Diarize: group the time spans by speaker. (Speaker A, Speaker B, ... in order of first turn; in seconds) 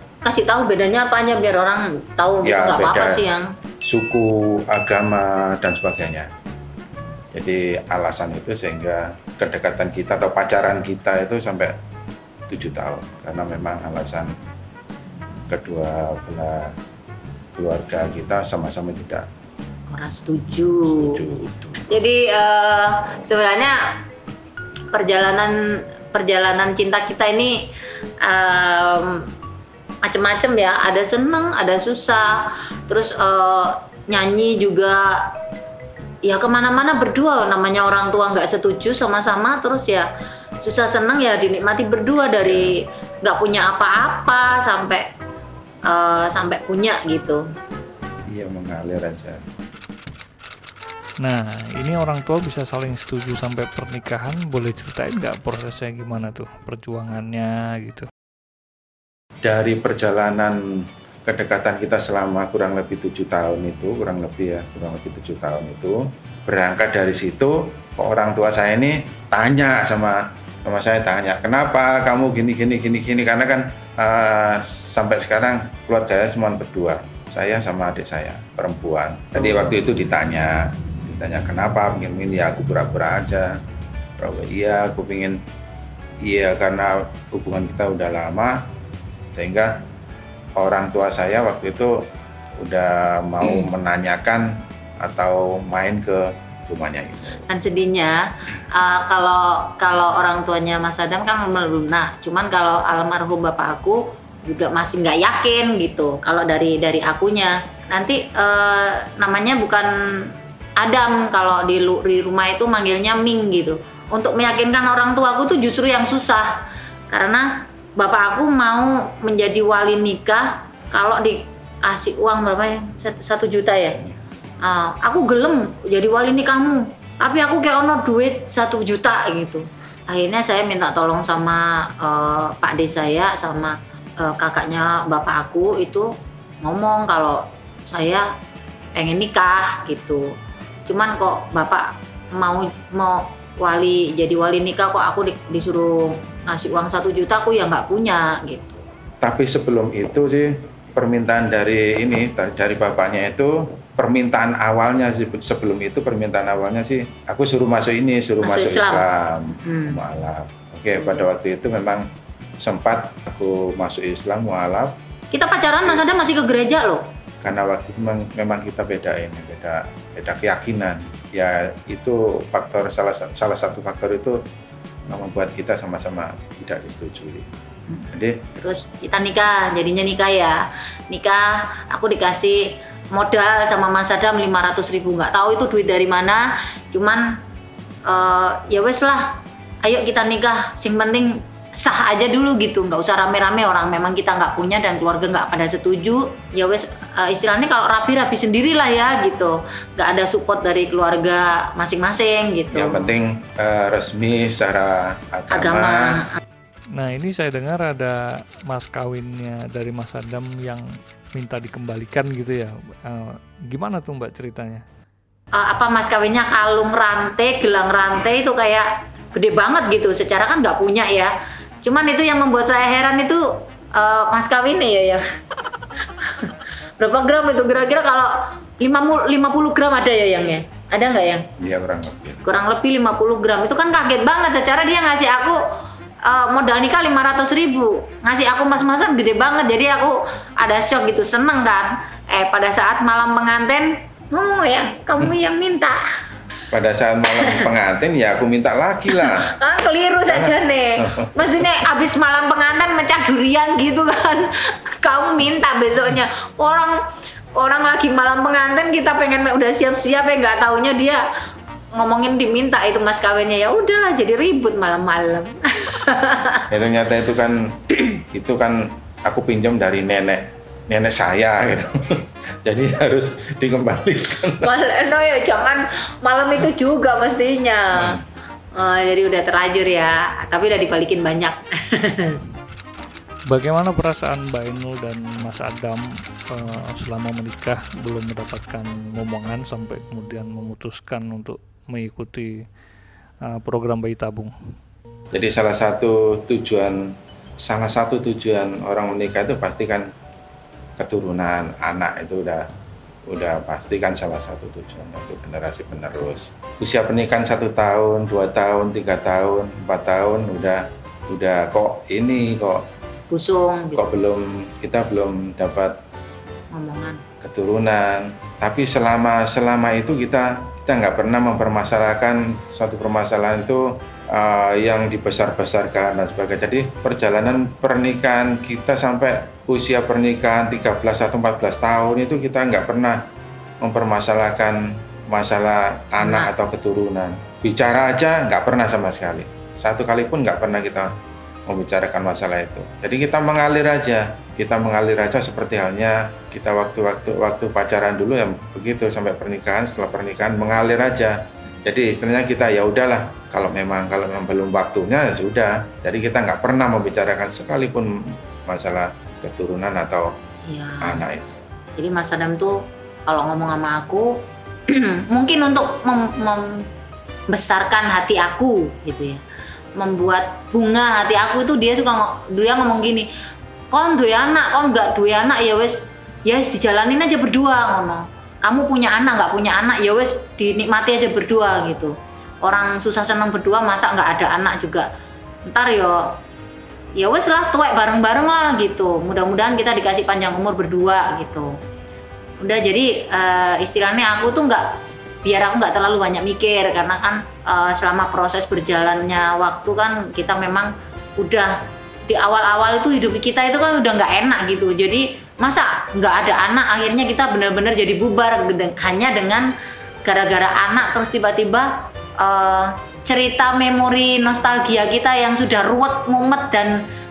Speaker A: 0.2-3.5, 19.9-21.2, 21.9-23.9, 24.9-27.7, 28.2-29.3, 30.0-35.3, 36.2-40.1, 40.6-45.1, 45.9-47.5, 97.5-124.0, 124.6-138.3, 138.9-140.3, 140.9-148.8, 158.4-159.1, 159.6-160.0, 165.3-167.0, 177.9-187.4, 188.1-203.1, 205.5-206.4, 215.5-225.2, 226.2-231.5, 232.4-235.6, 236.2-246.0, 247.4-247.7, 249.1-257.0, 257.6-261.2, 261.9-266.7, 274.6-278.2, 278.8-282.4, 313.3-314.0, 316.7-317.2, 336.2-336.5, 360.7-361.2, 362.0-366.8, 367.5-369.4, 370.0-373.3, 373.9-385.1, 385.7-386.4, 387.2-391.7, 392.6-394.9, 395.4-401.8, 402.3-409.7, 410.2-417.0
Speaker B: 2.4-3.3, 3.8-6.3, 7.3-11.8, 12.5-14.3, 15.5-16.8, 17.6-19.3, 20.9-22.0, 42.4-42.7, 48.3-49.4, 59.4-60.6, 61.3-83.6, 84.2-85.4, 86.2-88.7, 89.3-89.8, 90.6-92.1, 92.6-97.5, 149.2-162.1, 162.6-164.9, 167.4-174.4, 175.1-177.5, 178.1-178.5, 202.7-206.2, 231.6-232.4, 246.7-249.5, 250.3-251.3, 266.7-274.7, 295.3-300.1, 301.0-302.7, 303.3-312.9, 314.0-316.0, 317.4-333.2, 333.8-341.1, 341.7-360.3, 361.0-361.6
Speaker C: 51.2-58.1, 206.9-208.2, 208.7-214.8, 283.5-292.5, 293.4-294.5